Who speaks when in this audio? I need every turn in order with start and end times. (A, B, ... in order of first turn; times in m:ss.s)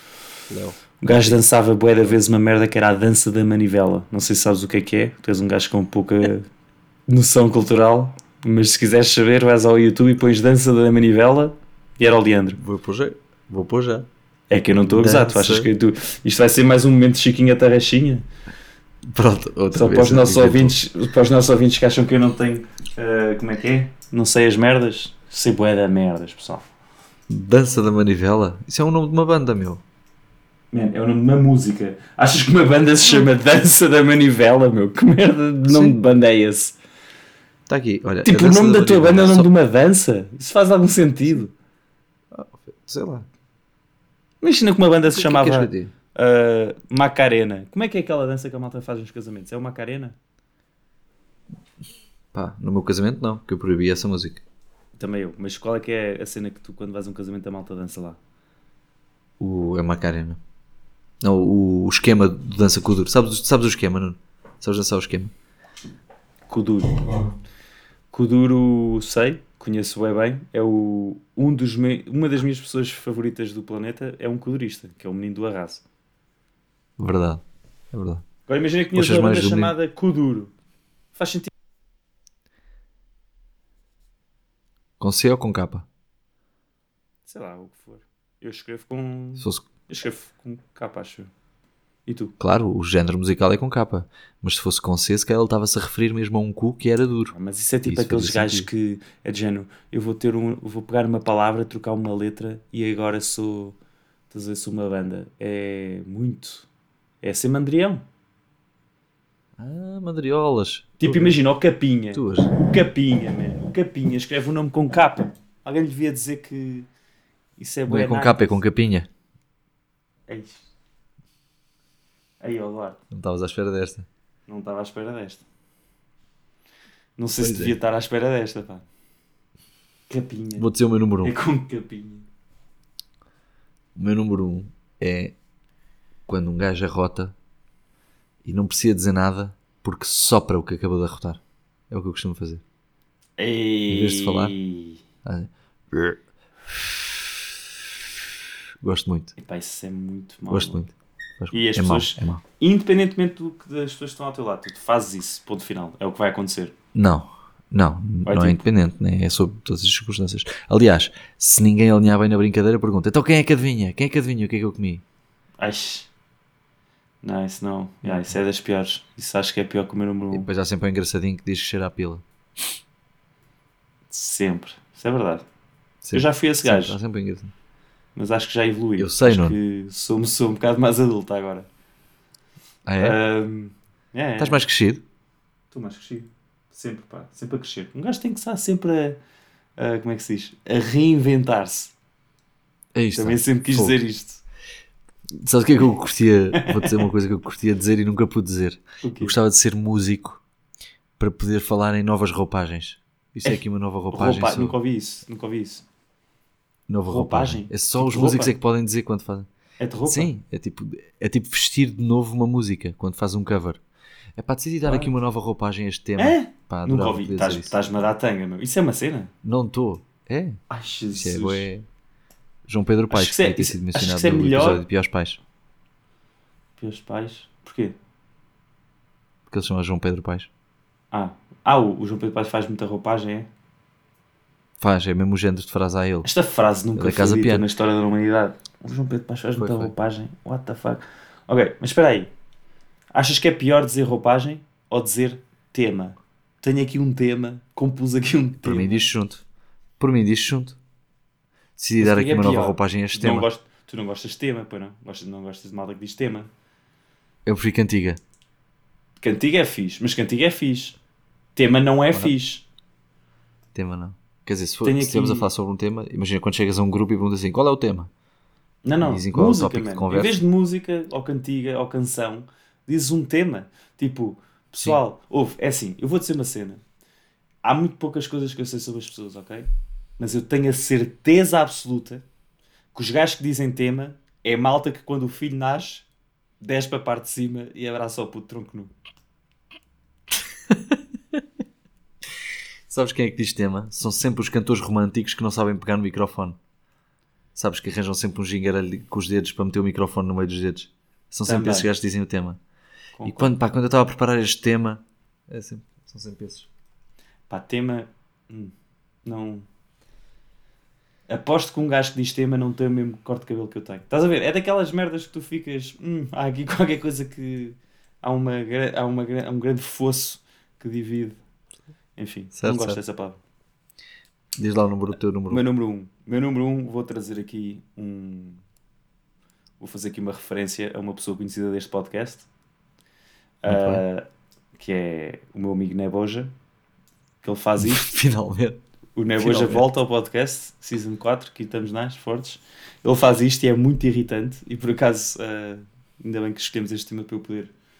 0:00.5-0:01.4 A
0:01.0-0:06.5 B
0:07.1-0:12.6 B
0:12.6-0:14.1 A
0:14.5-0:18.2 B
0:14.8-0:15.7 A
0:19.0-0:20.8 A
0:19.7-0:26.7 B
0:27.3-0:29.8 A
0:30.7-0:36.8 B
0:35.7-0:36.0 A
0:37.7-0:39.5 A
0:38.2-0:41.5 B
0:42.3-0:43.3 A
0:44.4-0:50.1 B
0:45.1-0:45.9 A
0:52.3-0:54.4 A
0:55.0-0:58.2 B
0:59.4-1:00.4 A
1:01.2-1:05.3 A
1:06.5-1:07.2 B
1:08.1-1:15.8 B
1:17.0-1:18.2 A
1:18.5-1:20.5 B
1:18.9-1:19.7 A
1:21.1-1:21.5 B
1:25.0-1:25.9 A
1:27.3-1:31.3 B
1:29.4-1:29.6 A
1:32.1-1:32.3 B
1:32.4-1:38.7 A
1:37.3-1:43.8 B
1:44.3-1:46.7 B
1:47.2-1:48.0 B
1:49.6-1:51.4 A
1:51.0-1:56.9 B
1:52.1-1:52.6 A
1:57.6-1:58.6 B
1:57.9-1:59.1 A
2:00.3-2:00.6 B
2:02.4-2:03.0 B
2:03.1-2:04.1 A
2:04.5-2:05.4 B
2:07.2-2:08.8 B
2:07.4-2:07.7 A
2:10.1-2:10.6 B
2:10.6-2:11.4 A
2:11.2-2:12.2 B
2:13.9-2:15.4 A
2:16.3-2:17.3 A
2:18.4-2:22.6 A
2:23.4-2:25.0 B
2:23.9-2:24.6 A
2:25.2-2:27.5 A
2:28.8-2:29.4 A
2:29.4-2:30.9 B
2:30.5-2:32.4 A
2:31.5-2:36.7 B
2:36.9-2:45.0 A
2:38.2-2:38.6 B
2:45.6-2:46.1 B
2:47.2-2:50.5 B
2:48.0-2:48.3 A
2:50.3-2:52.2 A
2:54.1-2:55.4 B
2:56.0-2:57.5 A
2:56.1-2:57.0 B
2:58.2-3:01.7 B
2:59.0-2:59.6 A
3:02.9-3:03.2 A
3:03.0-3:04.6 B
3:04.4-3:05.0 A
3:05.7-3:09.2 B
3:09.8-3:11.9 B
3:12.9-3:14.0 A
3:13.2-3:14.4 B
3:15.4-3:20.4 A
3:16.6-3:17.1 B
3:19.0-3:19.4 B
3:21.2-3:24.8 A
3:24.1-3:25.8 B
3:26.9-3:29.5 A
3:27.1-3:28.6 B
3:29.8-3:30.3 B
3:30.1-3:33.8 A
3:34.4-3:37.8 A
3:34.8-3:35.1 B
3:36.2-3:39.3 B
3:39.4-3:40.6 A
3:40.7-3:41.7 B
3:41.1-3:41.9 A
3:42.6-3:45.4 A
3:43.1-3:44.8 B
3:46.8-3:47.9 B
3:49.5-3:50.5 A
3:51.1-3:53.5 B
3:54.8-3:56.3 A
3:56.2-4:02.3 B
3:56.9-3:57.6 A
3:59.6-3:59.9 A
4:03.1-4:09.1 B
4:08.6-4:09.4 A
4:10.0-4:10.8 A
4:11.8-4:13.5 A
4:12.0-4:16.5 B
4:17.4-4:18.2 A
4:19.2-4:21.0 B
4:21.6-4:22.6 B
4:23.7-4:28.1 A
4:24.8-4:25.5 B
4:28.8-4:36.8 B
4:29.0-4:30.4 A
4:37.6-4:42.2 B
4:42.9-4:46.1 B
4:46.6-4:48.9 B
4:50.7-4:51.0 A
4:52.9-4:56.6 A
4:57.6-5:02.6 A
5:01.4-5:01.9 B
5:03.2-5:03.6 B
5:03.2-5:06.7 A
5:07.5-5:08.7 B
5:09.2-5:09.6 B
5:11.3-5:21.4 B
5:22.2-5:23.4 B
5:22.6-5:23.0 A
5:24.6-5:25.6 A
5:25.5-5:28.6 B
5:29.8-5:32.5 B
5:33.6-5:36.5 B
5:33.7-5:34.0 A
5:37.4-5:38.2 B
5:37.8-5:38.8 A
5:39.2-5:47.7 B
5:39.4-5:39.9 A